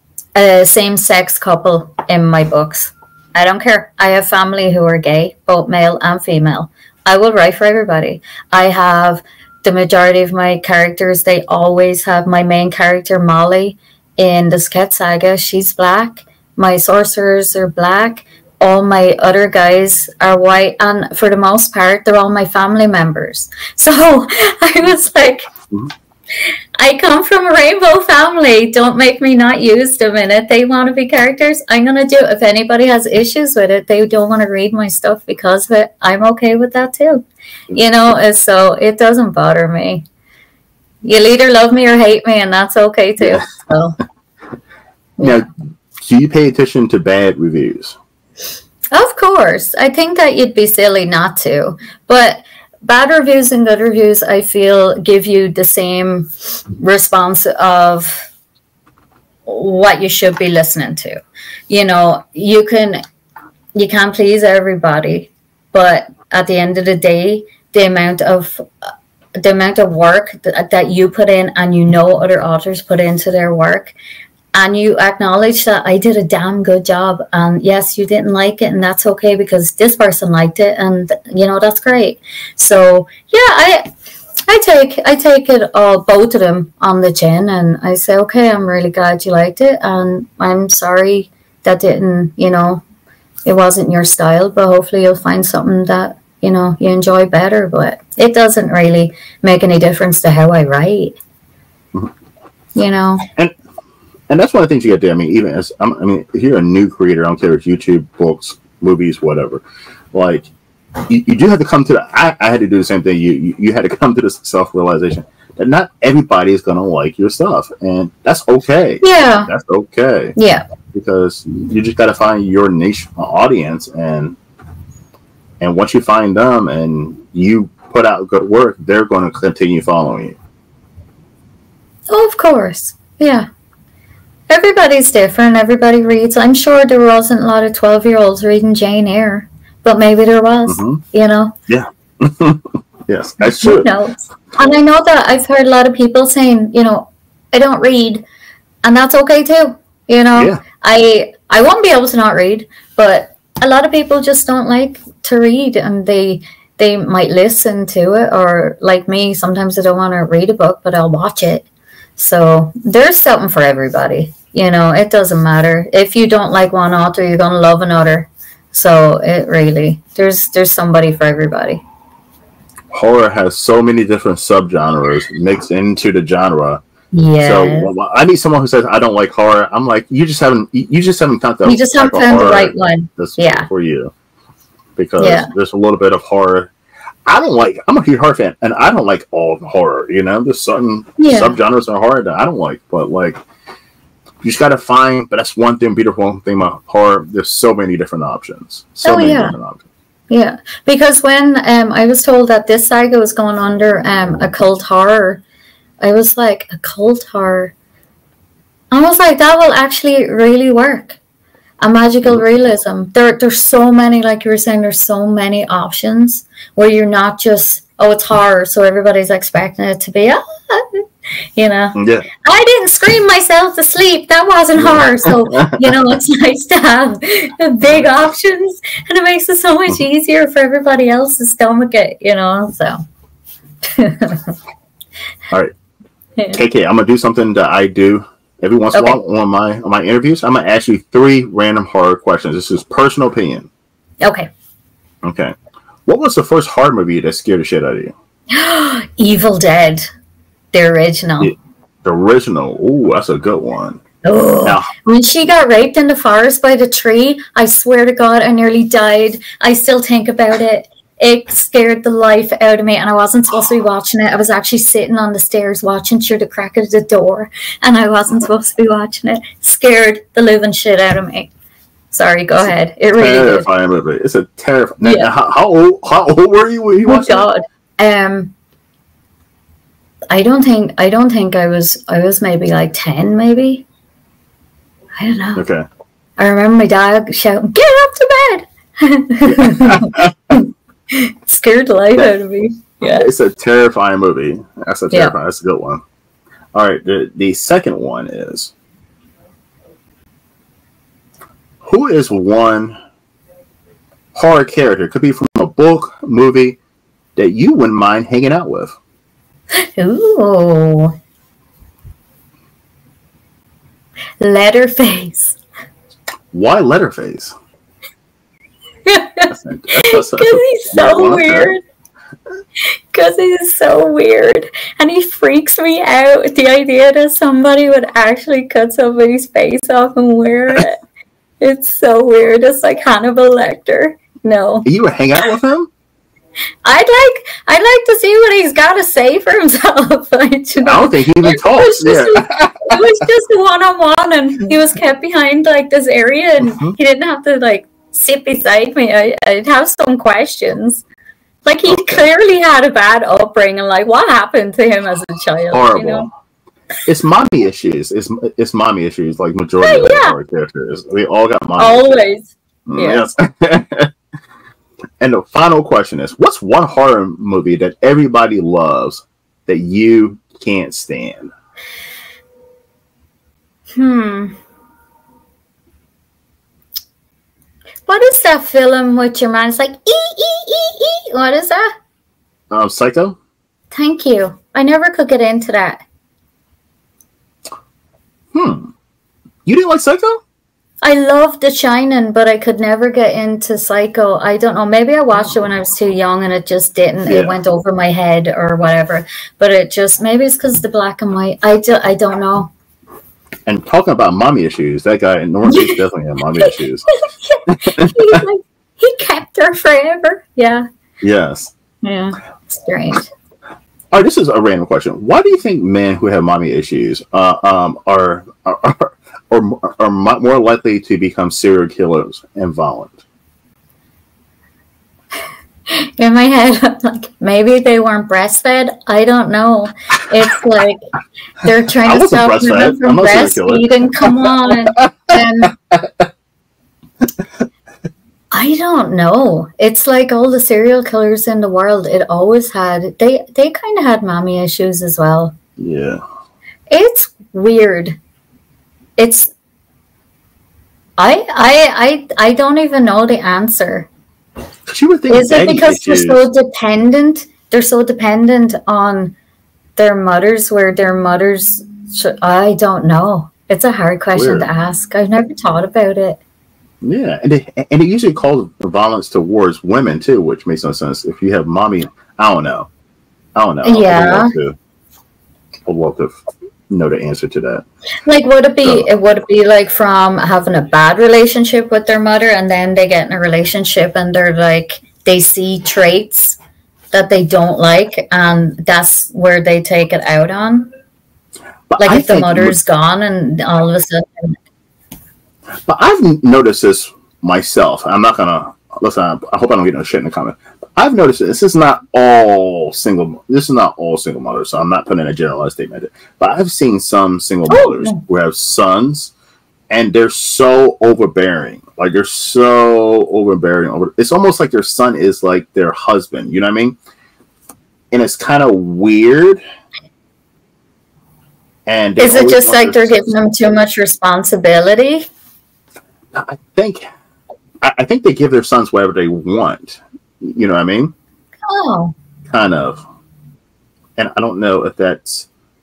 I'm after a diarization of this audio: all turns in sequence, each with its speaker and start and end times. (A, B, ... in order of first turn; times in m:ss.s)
0:00.4-0:25.5 A
0:26.8-0:40.0 A
0:41.0-0:44.0 A
0:45.2-0:45.5 B
0:46.0-0:48.0 B
0:48.9-0:58.3 A
0:59.5-1:01.2 A
1:01.7-1:03.0 A
1:03.8-1:14.0 A
1:14.5-1:23.9 A
1:24.5-1:32.8 A
1:33.5-1:41.2 A
1:42.8-1:43.3 A
1:44.3-1:50.5 B
1:51.1-2:00.3 B
1:59.0-1:59.5 A
2:00.4-2:00.6 A
2:00.9-2:04.4 B
2:05.6-2:10.4 B
2:12.1-2:13.5 A
2:14.5-2:21.6 A
2:20.7-2:21.0 B
2:21.7-2:23.9 B
2:23.4-2:28.2 A
2:28.8-2:51.8 A
2:30.4-2:30.6 B
2:52.9-2:56.8 B
2:57.1-2:57.9 A
2:57.4-3:04.1 B
3:01.6-3:03.7 A
3:05.0-3:06.7 B
3:05.2-3:05.5 A
3:07.3-3:13.4 B
3:11.2-3:11.6 A
3:14.4-3:19.8 B
3:19.0-3:19.6 A
3:20.3-3:25.4 A
3:26.0-3:27.7 A
3:28.9-3:31.2 A
3:31.8-3:41.0 A
3:41.6-3:53.0 A
3:42.0-3:42.2 B
3:44.8-3:46.1 B
3:53.9-3:54.5 A
3:56.4-3:56.6 A
3:56.5-4:03.7 B
4:04.2-4:04.5 A
4:05.2-4:05.6 B
4:06.1-4:08.1 B
4:08.5-4:10.1 A
4:10.7-4:11.5 A
4:11.4-4:14.0 B
4:14.2-4:31.5 A
4:14.6-4:14.9 B
4:32.1-4:33.7 A
4:32.6-4:37.5 B
4:35.0-4:35.3 A
4:37.1-4:38.5 A
4:40.3-4:43.9 A
4:45.2-4:45.6 A
4:45.6-4:45.9 B
4:46.4-4:53.3 A
4:49.4-4:50.5 B
4:53.0-4:56.0 B
4:56.7-4:58.7 B
5:01.8-5:03.0 B
5:04.3-5:06.8 B
5:07.4-5:09.0 B
5:09.7-5:11.1 A
5:14.4-5:15.6 A
5:16.5-5:17.5 B
5:19.1-5:21.8 A
5:19.5-5:21.7 B
5:23.1-5:31.0 A
5:31.6-5:34.9 A
5:34.8-5:35.9 B
5:36.8-5:51.0 A
5:40.8-5:43.0 B
5:46.6-5:47.0 B
5:51.6-5:56.3 A
5:51.9-5:52.2 B
5:55.7-5:56.3 B
5:57.1-6:02.1 B
5:59.8-6:00.4 A
6:01.8-6:03.3 A
6:02.9-6:04.1 B
6:05.2-6:11.5 B
6:14.0-6:14.6 A
6:18.1-6:21.9 A
6:22.7-6:23.4 B
6:23.9-6:26.0 A
6:28.5-6:28.9 B
6:29.6-6:30.4 B
6:31.0-6:42.7 A
6:37.3-6:37.5 B
6:43.7-6:47.1 B
6:45.7-6:46.0 A
6:47.4-6:50.9 A
6:47.7-6:48.4 B
6:51.2-6:51.7 B
6:52.0-6:53.3 A
6:54.1-7:03.2 B
7:05.9-7:11.0 A
7:11.6-7:15.8 A
7:12.0-7:15.4 B
7:15.9-7:16.2 B
7:18.5-7:25.5 A
7:25.8-7:26.2 B
7:26.9-7:28.2 A
7:29.2-7:29.5 A
7:31.2-7:34.1 A
7:34.9-7:36.4 B
7:35.3-7:39.3 A
7:40.0-7:46.4 A
7:44.4-7:44.7 B
7:47.0-7:52.9 B
7:53.6-7:54.8 B
7:53.8-7:54.5 A
7:55.9-7:57.8 B
7:58.2-8:06.6 A
8:07.1-8:10.9 A
8:11.9-8:12.8 B
8:12.0-8:14.6 A
8:15.9-8:29.3 B
8:27.7-8:28.2 A
8:29.9-8:37.0 B
8:38.1-8:39.6 B
8:41.9-8:43.3 B
8:42.2-8:45.3 A
8:46.3-8:47.1 B
8:47.8-8:51.1 B
8:51.7-8:52.1 A
8:52.5-8:53.0 B
8:54.2-8:55.5 B